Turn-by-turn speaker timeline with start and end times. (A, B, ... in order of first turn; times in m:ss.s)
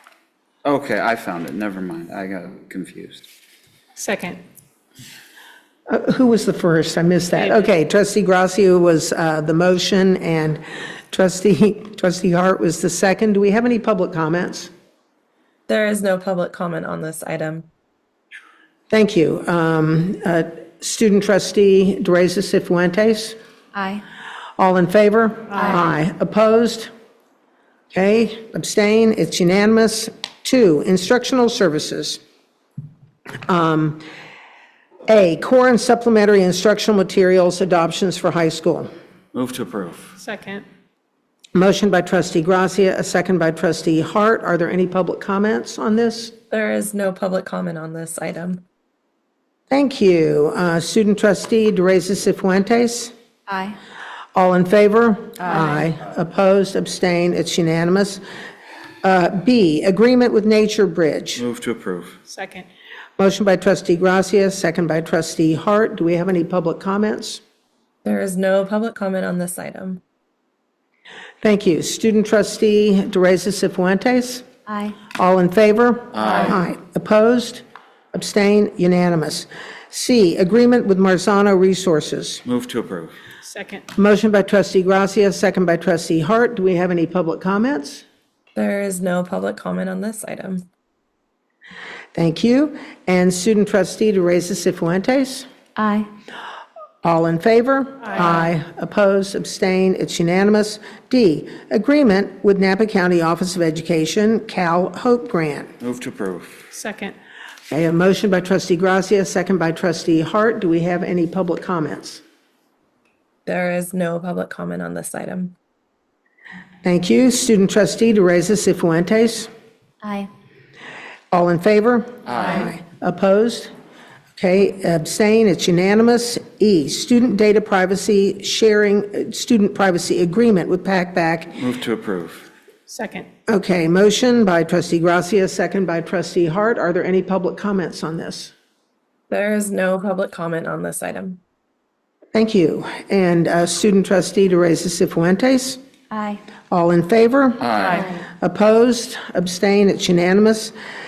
0:00.6-0:03.3 A
0:04.0-0:04.4 B
0:05.9-0:14.7 C
0:07.4-0:07.7 B
0:15.7-0:17.7 D
0:18.9-0:23.4 C
0:23.7-0:24.0 E
0:24.6-0:26.9 C
0:27.9-0:32.2 C
0:33.5-0:34.0 C
0:35.1-0:38.9 C
0:39.3-0:40.2 A
0:40.2-0:40.6 B
0:41.5-0:46.4 C
0:46.5-0:48.6 D
0:49.7-0:53.1 C
0:53.5-0:53.8 E
0:54.4-0:58.2 C
0:55.5-0:55.8 E
0:59.0-1:01.4 C
1:01.4-1:02.2 A
1:02.3-1:02.7 B
1:03.2-1:07.4 C
1:08.0-1:10.0 D
1:11.4-1:14.5 C
1:14.7-1:15.0 E
1:15.0-1:22.4 C
1:16.1-1:16.6 A
1:22.4-1:23.2 A
1:23.4-1:23.8 B
1:24.0-1:28.0 C
1:28.6-1:30.7 D
1:32.1-1:35.5 C
1:35.8-1:36.1 E
1:37.0-1:45.7 C
1:38.0-1:38.3 B
1:45.8-1:46.7 A
1:46.7-1:47.2 B
1:47.7-1:52.2 C
1:53.5-1:55.6 D
1:56.8-1:59.5 C
2:00.0-2:00.3 E
2:01.3-2:03.7 C
2:02.3-2:02.7 A
2:04.4-2:11.6 C
2:11.6-2:12.5 A
2:12.9-2:13.3 B
2:13.5-2:18.5 C
2:19.3-2:21.4 D
2:22.3-2:25.8 C
2:26.1-2:26.4 E
2:26.7-2:30.8 C
2:27.6-2:28.0 A